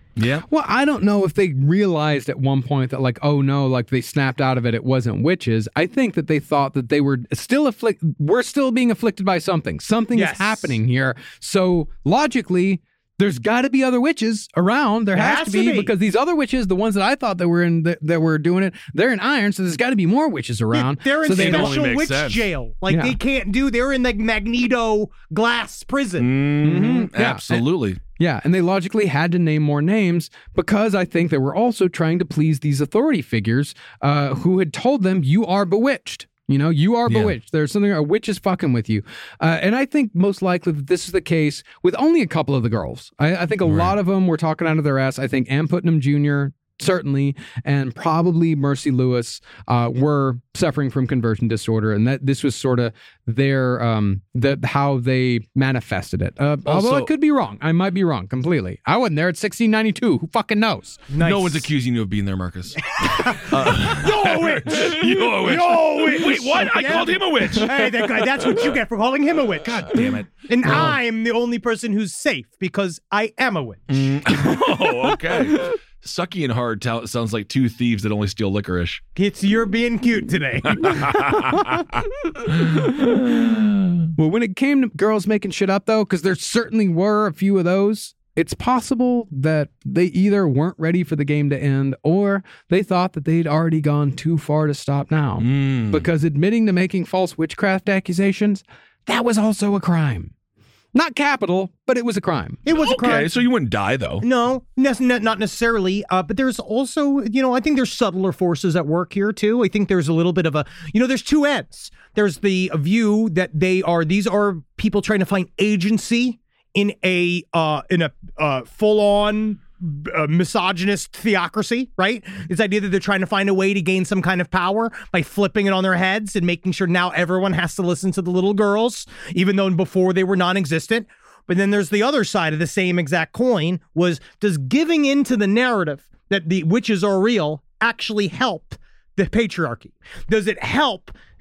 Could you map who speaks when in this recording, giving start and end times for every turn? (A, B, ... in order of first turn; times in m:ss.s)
0:00.2-0:00.4 A
0:00.5-0:21.8 B
0:10.1-0:10.8 C
0:15.2-0:15.9 C
0:20.7-0:26.3 C
0:21.3-0:22.5 A
0:22.9-0:23.2 B
0:26.2-0:28.0 A
0:26.6-0:27.6 B
0:28.2-1:01.0 B
0:37.1-0:37.3 A
0:43.6-0:43.9 A
0:56.6-0:57.1 A
1:01.1-1:01.7 C
1:01.2-1:08.6 A
1:03.0-1:14.1 C
1:09.6-1:11.0 A
1:13.9-1:19.0 A
1:19.2-1:21.3 C
1:20.6-1:21.8 A
1:22.5-1:23.7 A
1:22.7-1:23.1 B
1:24.2-1:40.3 B
1:35.4-1:36.1 A
1:40.9-1:42.6 B
1:42.6-1:43.4 C
1:42.7-1:44.2 A
1:44.2-2:21.2 C